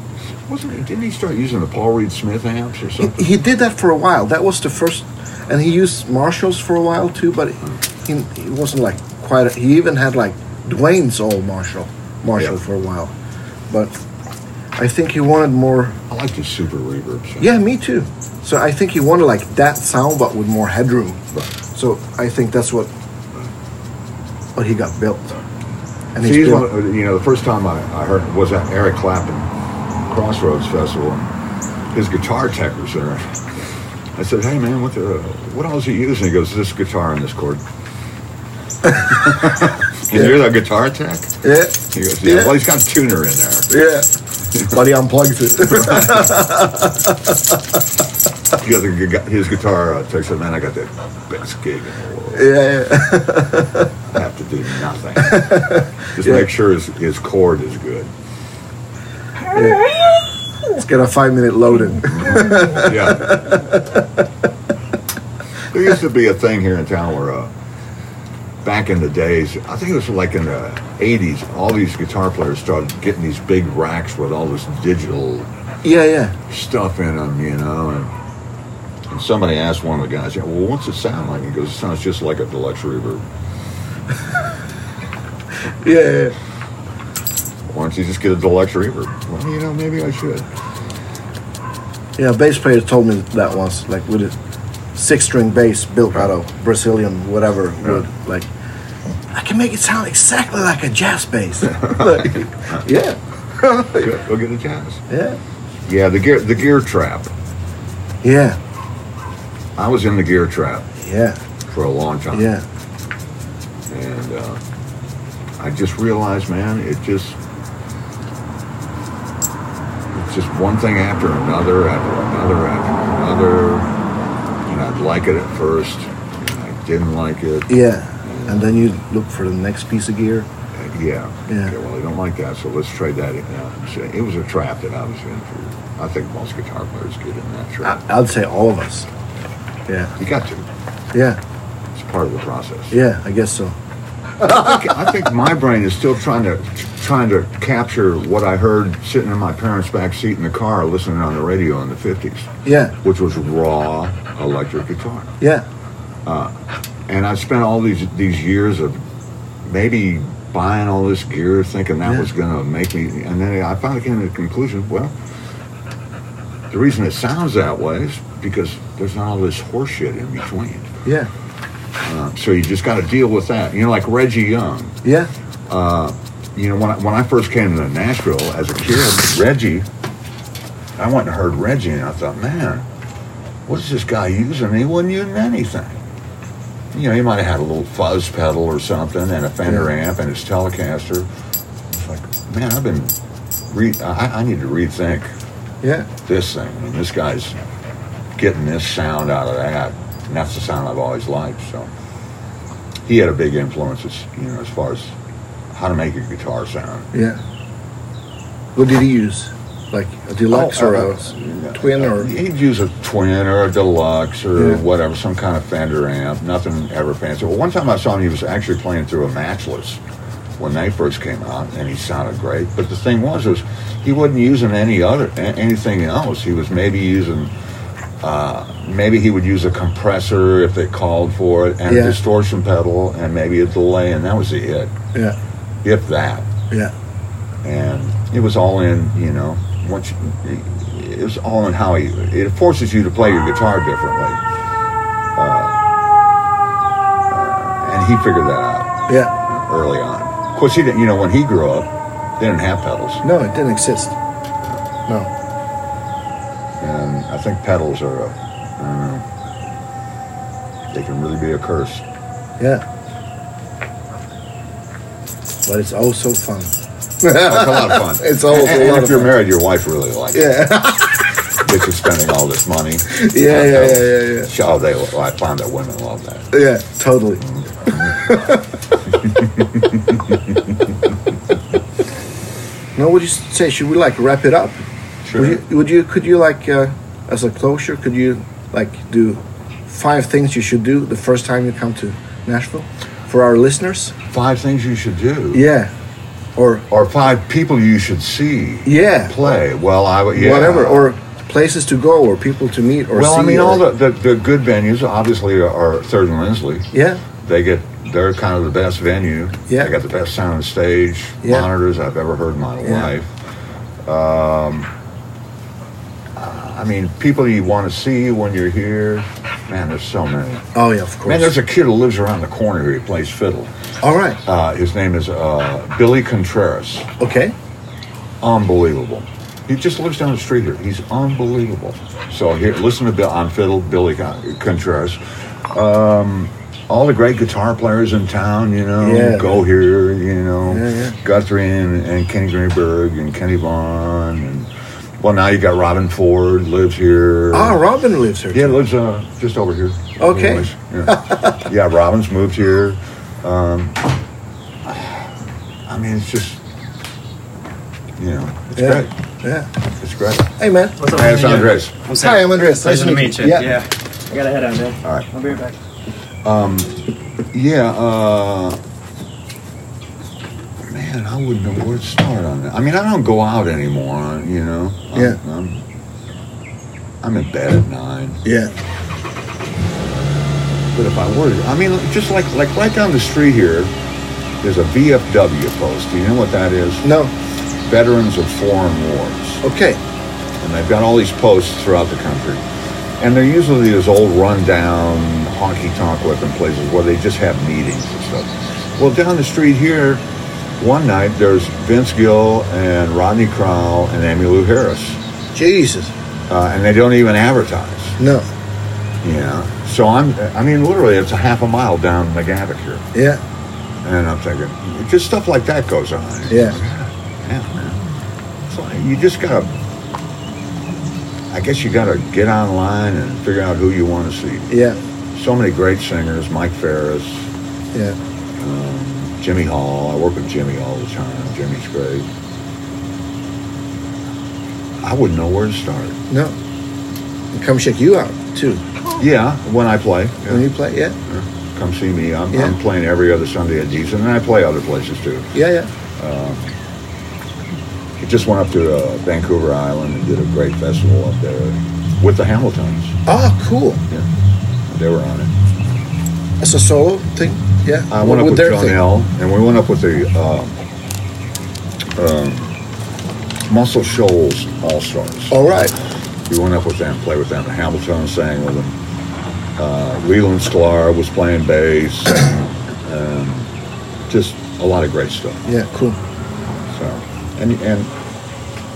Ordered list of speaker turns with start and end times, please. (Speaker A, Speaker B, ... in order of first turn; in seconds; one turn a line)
Speaker A: 0.5-3.4
Speaker B: 3.0-13.1
Speaker B: 13.7-14.0
Speaker B: 14.8-16.0
Speaker A: 16.1-17.6
Speaker B: 17.4-21.2
Speaker B: 21.7-22.9
Speaker B: 24.6-25.4
Speaker B: 26.1-26.7
Speaker A: 26.2-29.5
Speaker A: 30.1-31.3
Speaker A: 31.9-33.4
Speaker A: 34.1-37.6
Speaker A: 38.9-43.7
Speaker B: 39.0-39.3
Speaker B: 40.1-40.4
Speaker B: 41.4-42.6
Speaker B: 43.7-44.1
Speaker A: 44.5-44.8
Speaker B: 44.6-47.4
Speaker A: 45.7-46.4
Speaker A: 48.5-52.5
Speaker B: 52.3-53.9
Speaker A: 54.1-58.1
Speaker B: 55.2-56.5
Speaker B: 59.5-59.9
Speaker B: 60.7-64.2
Speaker A: 62.1-63.6
Speaker A: 65.7-67.5
Speaker A: 68.6-75.5
Speaker B: 75.8-76.4
Speaker A: 76.5-78.1
Speaker A: 79.1-83.2
Speaker B: 85.7-86.4
Speaker A: 87.7-90.5
Speaker B: 92.2-94.4
Speaker B: 95.0-98.5
Speaker B: 99.3-104.1
Speaker A: 101.6-102.8
Speaker A: 103.9-105.0
Speaker B: 105.1-105.4
Speaker A: 105.9-107.3
Speaker B: 108.2-108.6
Speaker A: 109.8-110.9
Speaker B: 111.0-111.4
Speaker A: 111.7-112.5
Speaker B: 112.3-112.6
Speaker A: 113.9-114.6
Speaker A: 115.6-117.4
Speaker A: 120.1-123.9
Speaker A: 124.7-128.8
Speaker B: 127.7-130.5
Speaker A: 130.7-138.0
Speaker B: 131.5-131.7
Speaker B: 137.8-139.1
Speaker B: 139.9-140.1
Speaker A: 140.2-140.7
Speaker B: 141.1-141.4
Speaker A: 141.9-142.9
Speaker B: 142.9-143.8
Speaker A: 144.4-152.5
Speaker B: 144.4-144.8
Speaker B: 152.6-152.9
Speaker A: 153.0-155.3
Speaker B: 155.4-155.7
Speaker A: 156.2-156.5
Speaker A: 157.1-159.0
Speaker A: 159.6-165.1
Speaker A: 166.7-170.9
Speaker B: 171.1-171.3
Speaker A: 172.0-175.0
Speaker B: 175.0-175.3
Speaker A: 175.7-179.9
Speaker A: 181.0-182.9
Speaker A: 183.7-186.0
Speaker A: 186.9-191.3
Speaker A: 191.9-193.2
Speaker A: 193.7-195.3
Speaker B: 195.8-196.1
Speaker A: 196.3-197.6
Speaker A: 198.4-201.9
Speaker A: 203.1-205.2
Speaker A: 205.7-207.1
Speaker B: 207.1-207.4
Speaker B: 208.8-212.3
Speaker A: 210.5-220.0
Speaker B: 214.6-214.8
Speaker A: 220.6-227.5
Speaker A: 228.2-234.9
Speaker B: 231.9-232.2
Speaker A: 235.8-236.5
Speaker A: 237.6-244.4
Speaker A: 245.4-245.8
Speaker A: 247.3-253.2
Speaker B: 249.1-249.3
Speaker B: 253.2-254.1
Speaker A: 256.8-259.3
Speaker A: 260.9-262.1
Speaker B: 262.6-262.8
Speaker B: 265.7-269.4
Speaker A: 267.3-270.7
Speaker B: 270.3-271.2
Speaker A: 271.6-276.5
Speaker B: 273.1-274.5
Speaker B: 276.5-278.6
Speaker A: 277.4-278.4
Speaker A: 279.1-280.8
Speaker B: 282.9-284.8
Speaker A: 285.2-285.6
Speaker B: 285.4-294.1
Speaker A: 294.3-295.6
Speaker B: 295.5-295.9
Speaker B: 296.6-296.9
Speaker A: 296.9-301.1
Speaker B: 298.9-299.4
Speaker B: 300.3-303.8
Speaker A: 303.1-313.4
Speaker B: 306.9-307.2
Speaker B: 311.4-311.7
Speaker B: 312.8-313.1
Speaker A: 314.1-314.9
Speaker A: 316.4-320.7
Speaker B: 320.7-321.6
Speaker A: 321.2-323.7
Speaker B: 324.0-324.4
Speaker A: 324.4-327.1
Speaker B: 327.2-327.5
Speaker A: 328.4-347.8
Speaker B: 339.0-339.6
Speaker B: 340.7-341.2
Speaker B: 347.5-348.8
Speaker A: 348.5-354.1
Speaker B: 350.2-351.7
Speaker A: 354.9-355.3
Speaker A: 355.9-356.6
Speaker A: 358.2-359.1
Speaker B: 358.8-359.7
Speaker A: 360.0-360.5
Speaker B: 360.6-361.3
Speaker C: 361.0-365.7
Speaker A: 361.1-361.9
Speaker B: 362.1-363.8
Speaker A: 365.0-365.3
Speaker A: 366.4-367.0
Speaker A: 367.5-368.8
Speaker A: 370.8-375.8
Speaker A: 377.2-378.4
Speaker B: 378.4-378.7
Speaker A: 380.9-383.9
Speaker A: 384.6-387.1
Speaker B: 387.0-387.3
Speaker A: 387.8-389.6
Speaker B: 389.6-390.0
Speaker A: 390.6-392.6
Speaker A: 393.2-400.2
Speaker A: 400.8-405.2
Speaker B: 405.5-406.1
Speaker A: 406.5-408.2
Speaker B: 408.2-408.5
Speaker A: 409.2-413.1
Speaker B: 413.1-413.4
Speaker A: 414.0-418.0
Speaker B: 416.5-416.8
Speaker A: 418.6-419.7
Speaker A: 421.5-424.7
Speaker B: 424.7-425.0
Speaker A: 425.3-427.5
Speaker A: 428.6-432.3
Speaker A: 435.0-436.2
Speaker B: 436.3-436.6
Speaker B: 437.5-439.0
Speaker A: 439.2-440.7
Speaker B: 440.5-441.2
Speaker A: 441.3-445.5
Speaker B: 445.5-445.9
Speaker A: 446.2-446.8
Speaker A: 448.2-453.2
Speaker B: 453.3-454.0
Speaker A: 454.9-455.5
Speaker B: 456.6-459.0
Speaker A: 458.1-460.8
Speaker A: 462.2-462.7
Speaker A: 463.7-465.9
Speaker B: 465.5-465.9
Speaker A: 466.5-469.0
Speaker A: 469.8-473.7
Speaker A: 474.3-475.6
Speaker B: 475.7-476.2
Speaker A: 476.9-478.1